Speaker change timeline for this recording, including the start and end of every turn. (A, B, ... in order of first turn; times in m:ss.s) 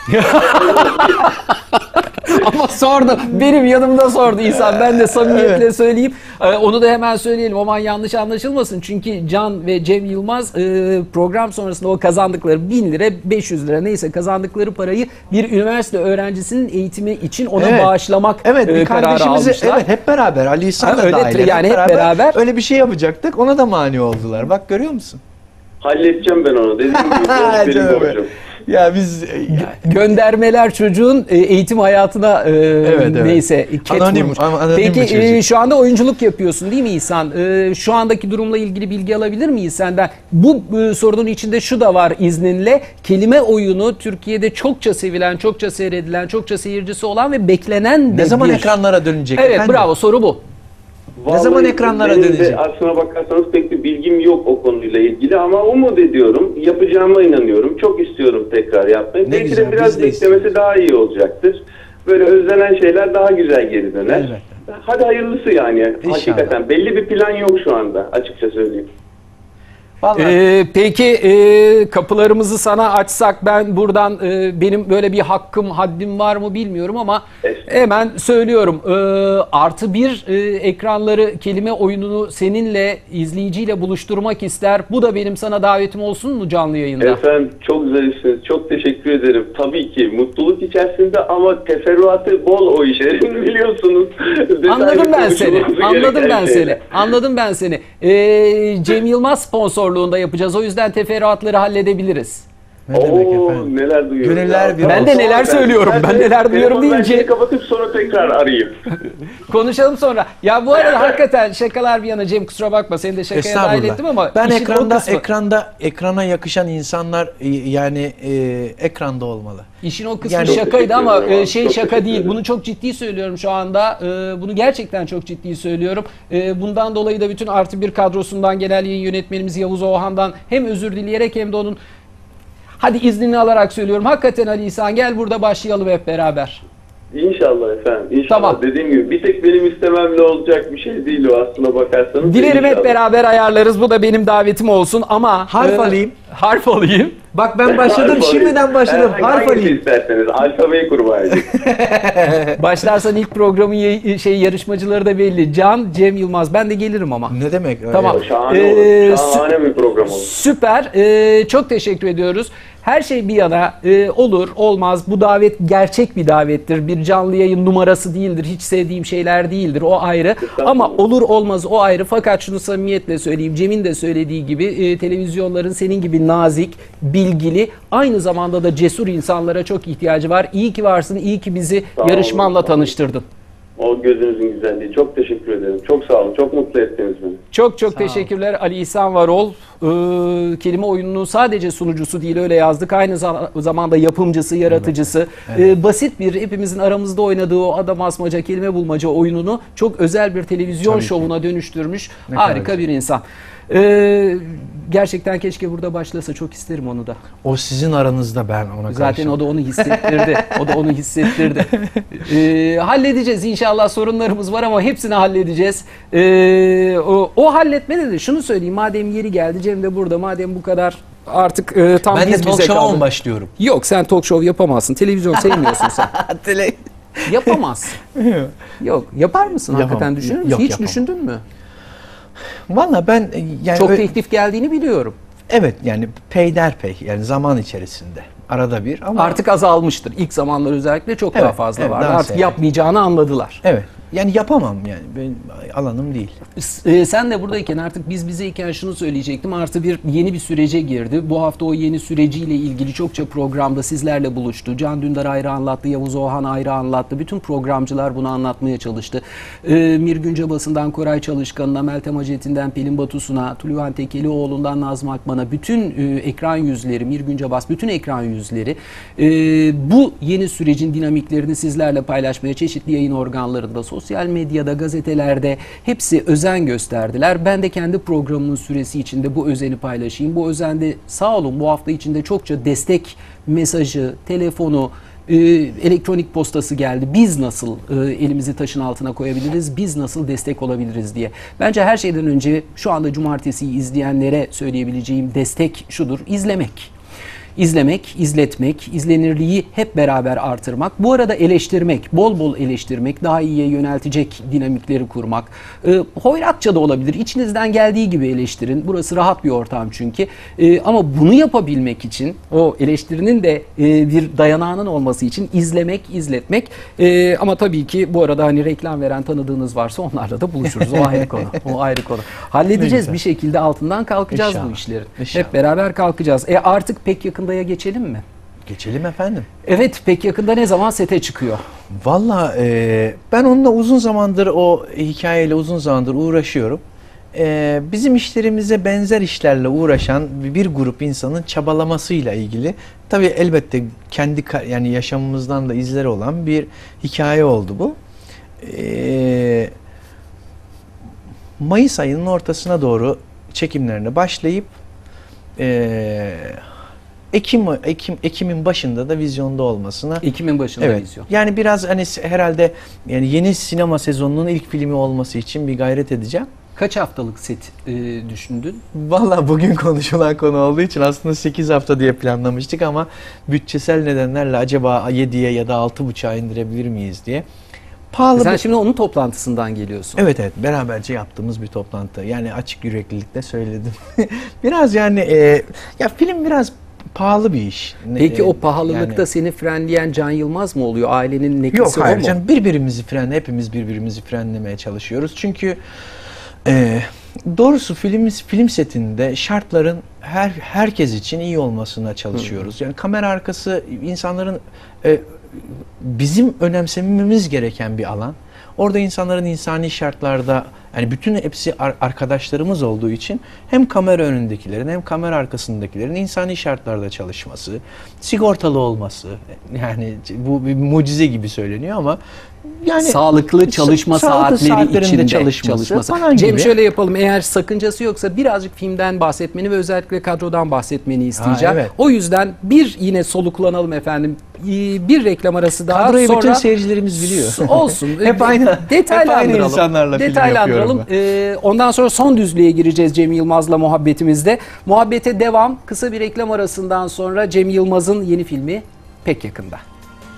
0:00.1-0:19.9 A
0:00.4-0:01.2 B
0:04.4-0:05.7 C
0:17.6-0:25.2 C
0:20.8-0:22.4 A
0:25.8-0:28.3 B
0:26.9-0:29.8 C
0:29.5-0:48.8 A
0:32.8-0:35.4 C
0:48.1-0:49.9 C
0:49.4-0:50.4 A
0:51.2-1:08.9 B
0:51.3-0:52.6 C
0:59.2-1:00.5 C
1:04.1-1:04.6 C
1:06.0-1:06.6 C
1:10.0-1:10.4 C
1:10.1-1:27.2 A
1:27.0-1:36.9 B
1:34.7-1:42.5 A
1:42.9-1:43.7 C
1:42.9-1:48.7 B
1:44.2-1:45.2 C
1:44.8-1:47.3 A
1:49.0-1:55.2 A
1:53.3-1:59.7 C
1:59.8-2:11.8 A
2:00.2-2:00.6 C
2:00.4-2:02.4 B
2:12.8-2:16.6 A
2:17.1-2:23.0 B
2:18.3-2:18.6 A
2:22.2-2:27.2 A
2:25.5-2:26.1 C
2:27.3-2:29.8 C
2:27.6-2:31.6 B
2:31.3-2:32.6 C
2:32.6-2:37.4 A
2:37.3-2:38.2 C
2:37.9-2:39.4 A
2:38.1-2:40.3 B
2:40.0-3:03.2 A
2:50.4-2:51.0 B
3:02.0-3:02.9 B
3:03.8-3:07.4 B
3:07.5-3:27.2 A
3:07.9-3:08.3 C
3:14.7-3:15.7 C
3:20.8-3:21.3 C
3:22.3-3:22.8 C
3:27.4-3:32.0 C
3:28.9-3:43.1 A
3:42.1-3:43.5 C
3:43.6-3:46.1 A
3:45.4-3:47.6 C
3:47.3-3:48.0 A
3:48.2-3:48.6 C
3:48.8-3:51.4 A
3:49.7-3:51.0 C
3:52.7-3:54.1 C
3:53.8-3:55.2 A
3:55.5-3:59.4 C
3:59.2-4:03.6 A
4:01.3-4:02.6 C
4:03.6-4:06.4 C
4:06.6-4:56.9 A
4:57.6-5:28.2 A
5:20.8-5:21.6 C
5:22.7-5:23.2 C
5:24.3-5:25.6 C
5:28.7-5:29.5 C
5:29.6-5:31.6 A
5:31.9-5:36.8 C
5:37.3-5:48.0 C
5:48.6-5:49.7 C
5:51.6-5:54.7 C
5:55.6-5:56.6 C
5:57.3-6:00.2 C
6:00.2-6:01.3 A
6:00.8-6:06.5 C
6:06.8-6:08.8 A
6:08.9-6:17.4 C
6:18.1-6:18.6 C
6:18.3-6:20.2 A
6:20.2-6:29.2 C
6:28.2-6:32.4 A
6:31.7-6:35.8 C
6:36.6-7:02.2 C
7:02.8-7:06.7 C
7:03.0-7:16.6 A
7:11.4-7:11.9 C
7:15.9-7:21.1 C
7:17.2-7:29.8 A